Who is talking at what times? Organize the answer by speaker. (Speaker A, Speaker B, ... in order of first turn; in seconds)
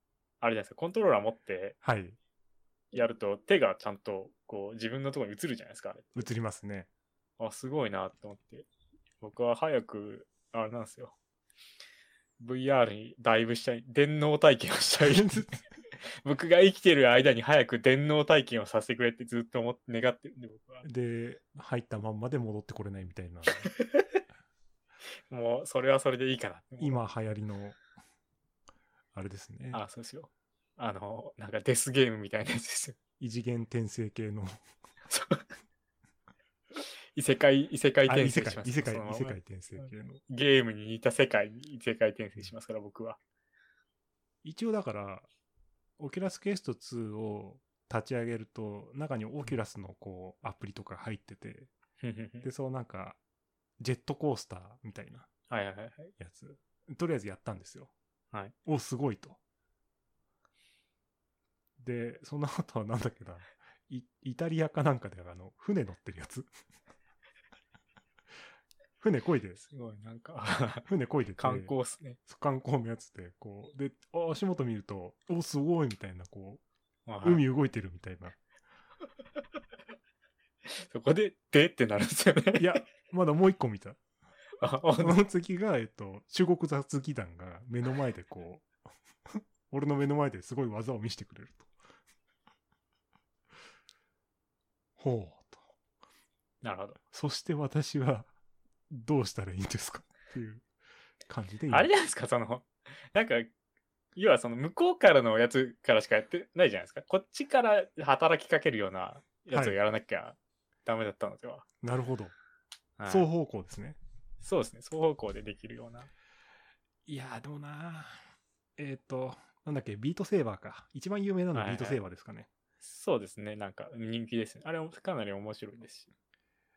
Speaker A: 0.4-1.8, 2.9-6.3, 7.4-8.7, 9.2-11.2, 12.4-15.6, 16.2-20.9, 23.7-24.2, 25.3-27.0, 29.7-33.0, 35.1-35.5, 36.8-43.2, 52.0-52.5, 55.5-56.1, 69.6-72.2, 77.1-77.4, 80.7-82.8, 84.6-85.2, 96.6-97.0, 101.7-103.5, 104.2-111.7, 113.0-113.3, 114.4-116.1, 121.5-122.0, 122.8-126.1
Speaker B: 1.8-2.2, 6.1-6.9, 15.1-15.6, 20.8-23.7, 26.8-27.8, 29.1-29.8, 33.2-34.6, 38.1-40.2, 44.4-45.3, 46.0-51.7, 52.4-53.2, 53.8-55.3, 56.2-57.9, 58.6-59.4, 61.8-66.5, 69.0-69.6, 70.9-71.7, 72.3-76.6, 77.2-78.4, 82.6-84.0, 85.0-88.7, 89.3-91.7, 95.0-95.6, 97.1-98.3, 98.9-100.7, 101.3-101.9, 109.5-109.8, 111.8-112.3, 113.0-114.0, 117.0-118.2, 118.8-122.5